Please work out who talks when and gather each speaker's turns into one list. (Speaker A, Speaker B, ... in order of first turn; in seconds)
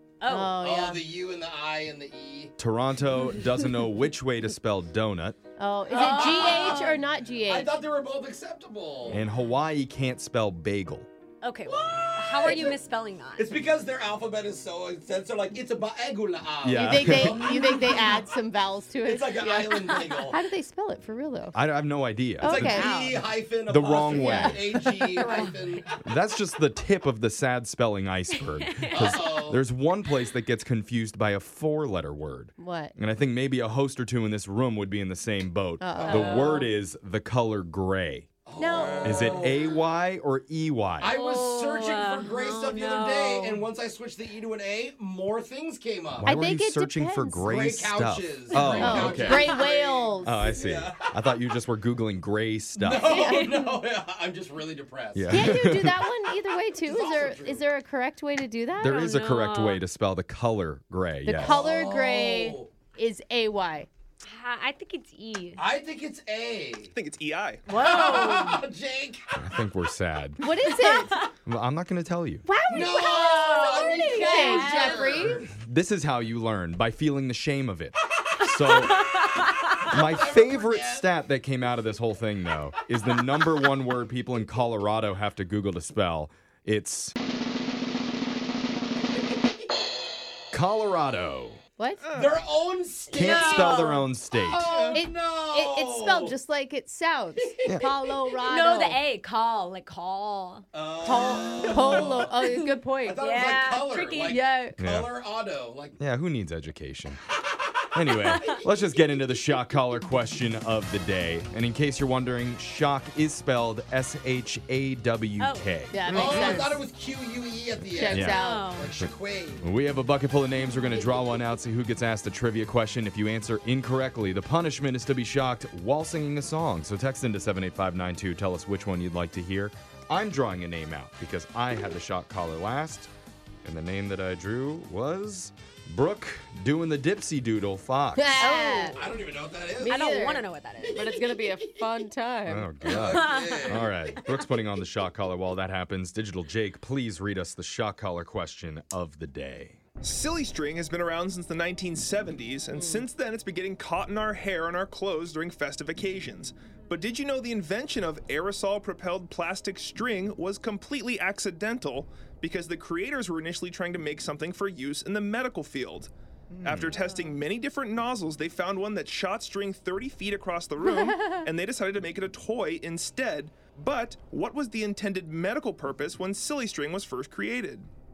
Speaker A: 0.2-0.6, 5.9-6.9, 11.4-13.5, 17.4-17.9, 22.7-23.0, 25.2-25.8, 28.3-29.4, 36.0-36.4, 41.0-43.6, 48.7-49.6, 58.8-59.8, 64.2-65.6, 67.7-68.7, 70.7-71.2, 72.9-75.3, 78.6-79.8, 98.5-100.7, 101.3-102.2, 103.2-104.4, 115.4-115.7, 118.1-118.9, 138.3-139.0, 139.8-141.0, 142.9-143.8
Speaker B: 0.3-1.0, 5.6-7.7, 16.7-21.6, 22.4-23.2, 24.1-25.4, 32.6-32.9, 35.8-36.6, 38.6-39.3, 46.2-47.6, 48.5-50.5, 53.0-53.7, 55.3-59.0, 61.2-63.9, 70.4-71.3, 72.4-75.4, 91.8-92.0, 93.2-94.0, 94.9-99.0, 101.0-103.2, 104.3-104.8, 115.9-116.8, 117.9-118.7, 138.1-139.0, 139.8-142.7, 152.7-153.1, 170.8-171.5
Speaker C: 0.6-2.5, 5.9-9.2, 11.7-12.8, 13.3-18.1, 19.0-20.4, 22.4-26.0, 28.9-29.6, 36.0-36.7, 38.4-39.8, 41.0-46.3, 47.4-51.2, 52.8-55.6, 56.8-57.6, 61.4-62.7, 65.5-66.9, 67.7-69.5, 72.7-75.5, 79.8-81.2, 83.0-83.5, 92.1-96.3, 97.4-98.1, 100.7-106.0, 108.0-108.5, 116.1-119.7, 138.9-140.1, 140.8-141.8, 142.8-144.2
Speaker D: 2.6-5.4, 9.1-11.1, 16.6-17.4, 21.5-22.8, 23.7-24.7, 26.0-38.3, 39.0-41.1, 46.2-49.6, 50.2-53.3, 55.1-56.0, 58.8-61.6, 69.4-70.5, 71.5-72.5, 75.6-79.0, 79.8-87.1, 90.5-91.6, 93.1-94.8, 104.8-105.1, 106.0-107.2, 107.9-116.6, 118.1-118.4, 119.0-133.1, 133.6-138.3, 142.5-149.8, 166.5-167.0
Speaker E: 66.9-67.6, 92.0-92.4, 94.7-95.0, 150.0-166.1, 166.6-177.9